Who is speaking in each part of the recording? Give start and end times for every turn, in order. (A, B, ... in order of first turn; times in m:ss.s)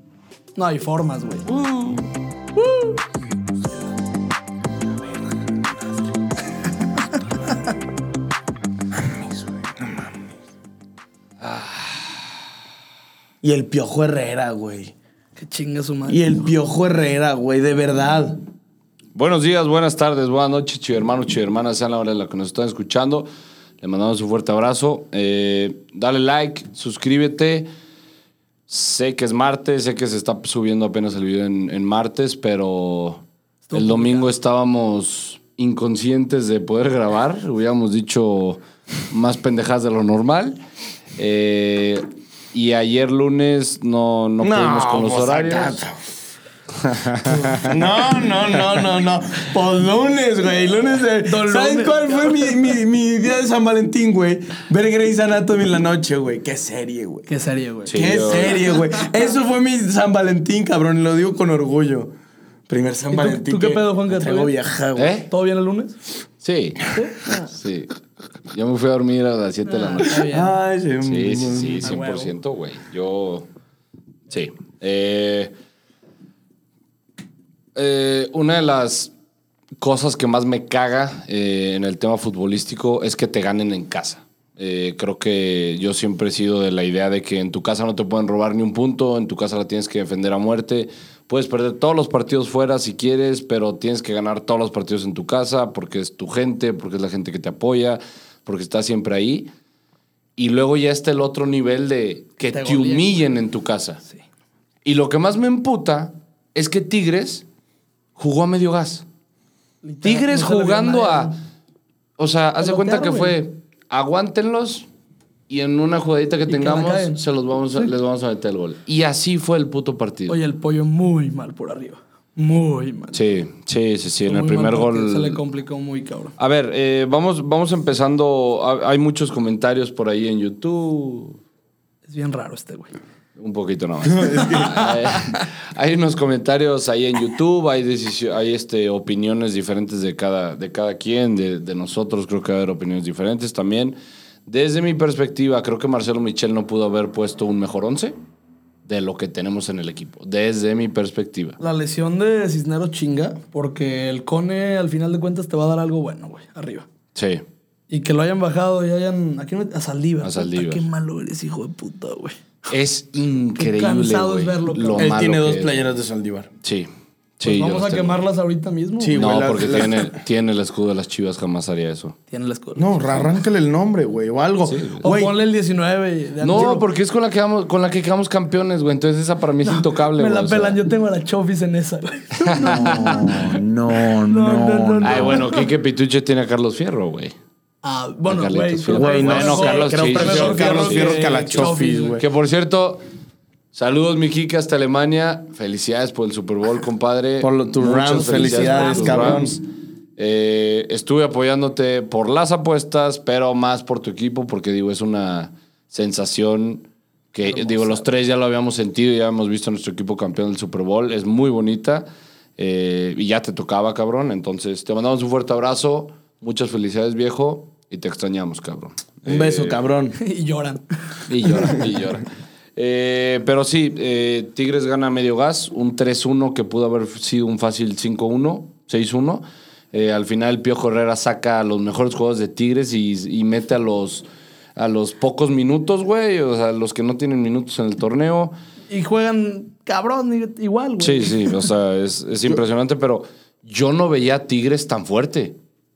0:00.6-0:01.5 A
0:01.7-0:02.0 B
0:02.6-0:03.0 A
0:09.0-0:10.1 C
0:11.4-0:12.2 B
0:13.4-0:14.9 C
0:15.4-0:16.5 A
0:16.1-0:18.4 C
0:19.1-0:23.3 B
0:23.8-0:27.7 B
0:28.7-0:33.2 B
0:33.7-0:34.3 A
0:33.7-0:40.6 B
0:41.2-0:45.8 B
0:44.4-0:46.1 C
0:46.8-0:47.8 B
0:47.4-0:57.3 C
0:51.2-0:52.6 A
0:57.3-0:59.0 A
0:57.9-0:58.7 B
0:57.9-1:02.1 C
1:02.7-1:05.2 C
1:03.1-1:04.5 A
1:05.0-1:05.3 B
1:05.3-1:06.0 A
1:06.4-1:06.9 B
1:06.9-1:07.5 A
1:07.5-1:07.9 B
1:08.5-1:10.2 B
1:09.6-1:10.6 A
1:10.2-1:11.9 C
1:11.0-1:13.4 B
1:11.8-1:12.3 A
1:14.3-1:15.5 B
1:17.7-1:19.1 B
1:19.8-1:39.5 B
1:40.4-1:44.0 B
1:42.5-1:43.2 A
1:44.8-1:47.4 B
1:48.2-1:49.0 B
1:49.8-1:51.3 A
1:50.0-1:51.3 B
1:52.2-1:54.9 B
1:52.6-1:53.4 A
1:55.5-2:00.4 B
1:56.5-1:57.2 A
2:00.3-2:03.2 A
2:03.1-2:05.4 B
2:04.3-2:06.3 A
2:06.4-2:11.4 B
2:12.0-2:12.9 A
2:13.4-2:24.0 B
2:14.0-2:14.9 C
2:14.3-2:15.4 A
2:24.5-2:28.2 B
2:28.8-2:31.6 B
2:31.6-2:36.9 A
2:37.2-2:37.4 B
2:37.9-2:42.4 A
2:40.2-2:40.9 B
2:42.7-2:45.8 B
2:43.6-2:45.2 A
2:45.0-2:46.5 C
2:46.6-2:46.9 B
2:47.4-2:48.2 B
2:47.4-2:49.5 A
2:49.0-2:50.2 C
2:49.2-2:52.2 B
2:52.3-2:52.9 A
2:52.8-2:55.3 C
2:54.7-2:55.1 B
2:55.0-2:56.9 A
2:56.4-3:00.8 B
2:59.6-3:05.7 A
3:02.4-3:03.5 B
3:02.6-3:05.5 C
3:05.0-3:07.3 B
3:07.8-3:12.2 A
3:08.3-3:13.0 B
3:08.9-3:12.2 C
3:13.7-3:19.6 B
3:17.4-3:19.6 C
3:18.1-3:19.5 A
3:20.2-3:32.1 B
3:27.5-3:28.0 A
3:32.6-3:39.8 B
3:39.3-3:40.2 C
3:40.2-3:40.8 A
3:41.3-3:54.2 B
3:41.5-3:41.8 A
3:54.8-3:58.5 B
3:58.9-4:01.6 A
4:01.0-4:05.6 B